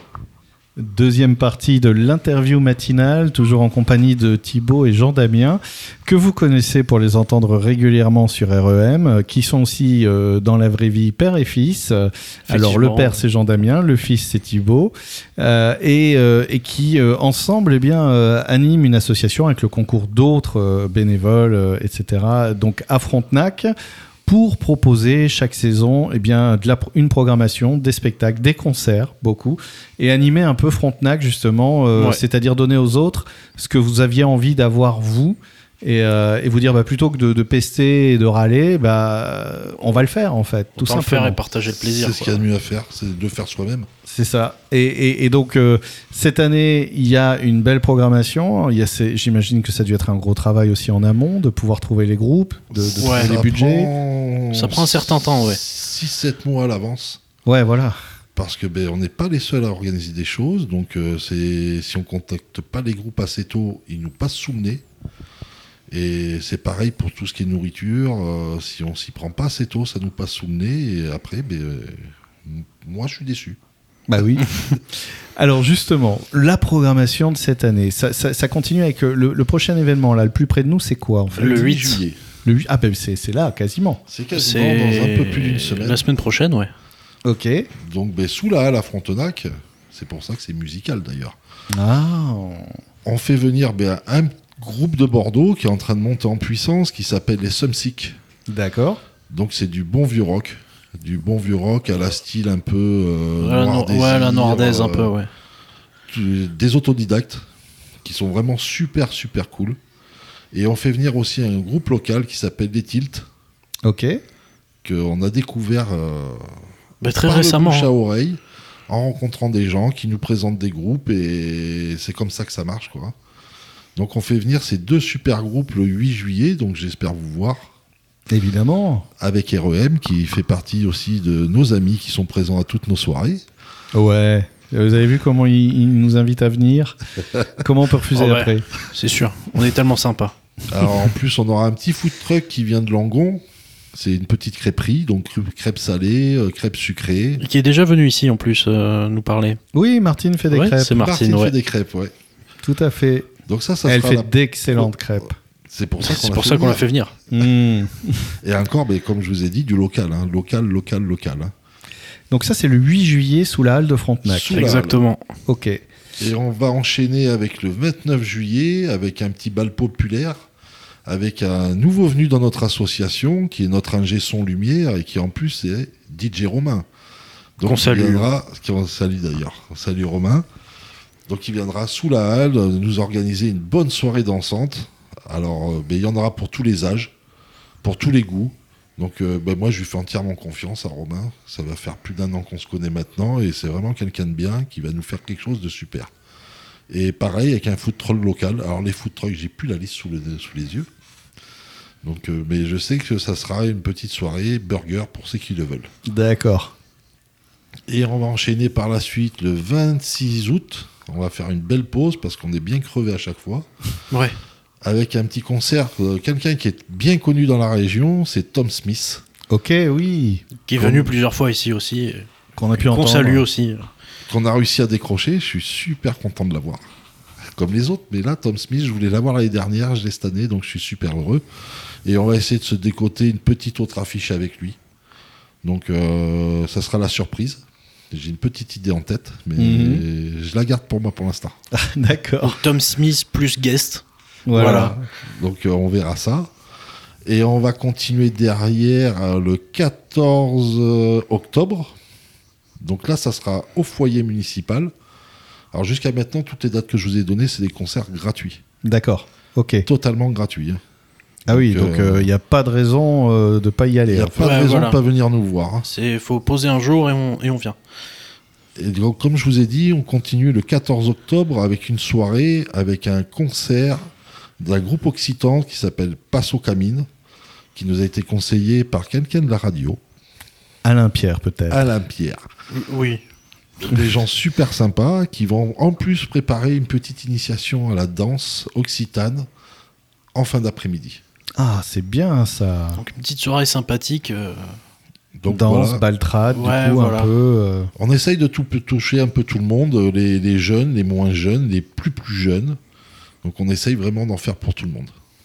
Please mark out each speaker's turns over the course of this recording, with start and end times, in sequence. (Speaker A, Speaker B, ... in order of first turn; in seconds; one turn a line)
Speaker A: 0.8-23.7
Speaker B: 12.5-13.2
Speaker A: 24.3-41.4
Speaker B: 32.0-32.2
Speaker B: 40.8-42.4
Speaker C: 41.8-43.9
Speaker A: 44.1-53.9
Speaker C: 52.8-57.2
Speaker B: 53.0-53.4
Speaker B: 54.5-55.6
Speaker A: 57.5-58.0
Speaker C: 58.4-64.8
Speaker C: 65.9-73.6
Speaker A: 74.1-81.8
Speaker C: 81.3-82.2
Speaker B: 81.4-82.0
Speaker A: 82.5-84.0
Speaker C: 84.1-86.0
Speaker B: 84.3-86.7
Speaker A: 87.2-87.7
Speaker C: 87.8-91.4
Speaker A: 91.7-92.7
Speaker C: 93.0-98.2
Speaker A: 98.5-99.0
Speaker C: 99.3-105.1
Speaker B: 103.4-105.3
Speaker C: 106.1-107.4
Speaker C: 108.0-109.8
Speaker C: 110.5-113.2
Speaker A: 113.9-114.2
Speaker C: 114.8-116.5
Speaker B: 117.0-117.9
Speaker C: 117.2-123.2
Speaker C: 124.0-127.7
Speaker A: 128.3-129.1
Speaker C: 129.2-133.4
Speaker A: 133.9-137.0
Speaker A: 137.6-138.7
Speaker B: 138.1-140.3
Speaker C: 140.7-143.4
Speaker C: 143.9-147.4
Speaker B: 147.4-149.6
Speaker A: 149.7-151.0
Speaker B: 150.5-151.5
Speaker C: 150.9-152.1
Speaker A: 152.6-153.3
Speaker C: 153.5-154.9
Speaker A: 153.8-155.3
Speaker C: 155.7-156.8
Speaker B: 156.0-157.1
Speaker A: 157.3-158.3
Speaker C: 158.4-161.5
Speaker A: 162.3-164.7
Speaker C: 164.2-165.0
Speaker B: 164.5-165.2
Speaker A: 165.5-165.8
Speaker C: 166.2-170.5
Speaker C: 171.1-176.9
Speaker C: 177.6-180.5
Speaker B: 177.7-178.3
Speaker C: 181.3-187.1
Speaker C: 187.8-196.1
Speaker C: 196.9-200.9
Speaker C: 202.0-205.9
Speaker A: 206.1-206.7
Speaker C: 207.9-213.7
Speaker B: 214.1-214.4
Speaker C: 214.8-219.2
Speaker A: 219.5-220.4
Speaker B: 220.7-223.9
Speaker C: 220.8-221.1
Speaker A: 222.6-223.5
Speaker C: 224.3-226.8
Speaker C: 227.6-231.4
Speaker C: 232.1-234.8
Speaker C: 235.6-241.6
Speaker A: 239.6-240.0
Speaker A: 241.7-242.6
Speaker B: 242.4-244.9
Speaker A: 244.5-245.1
Speaker C: 245.2-246.5
Speaker C: 247.2-251.9
Speaker C: 252.8-254.9
Speaker C: 255.7-258.6
Speaker A: 258.8-259.9
Speaker C: 259.9-260.8
Speaker A: 261.5-264.5
Speaker C: 261.5-262.3
Speaker C: 264.1-265.9
Speaker B: 264.4-265.0
Speaker B: 265.8-267.8
Speaker C: 268.8-274.0
Speaker C: 274.6-277.1
Speaker C: 277.8-280.0
Speaker A: 280.8-281.9
Speaker C: 281.7-282.4
Speaker B: 282.7-283.2
Speaker C: 283.8-289.5
Speaker C: 290.4-291.2
Speaker A: 291.6-293.0
Speaker B: 293.0-294.8
Speaker C: 295.4-296.0
Speaker A: 295.5-297.9
Speaker B: 296.5-297.3
Speaker C: 298.0-302.8
Speaker C: 303.4-305.1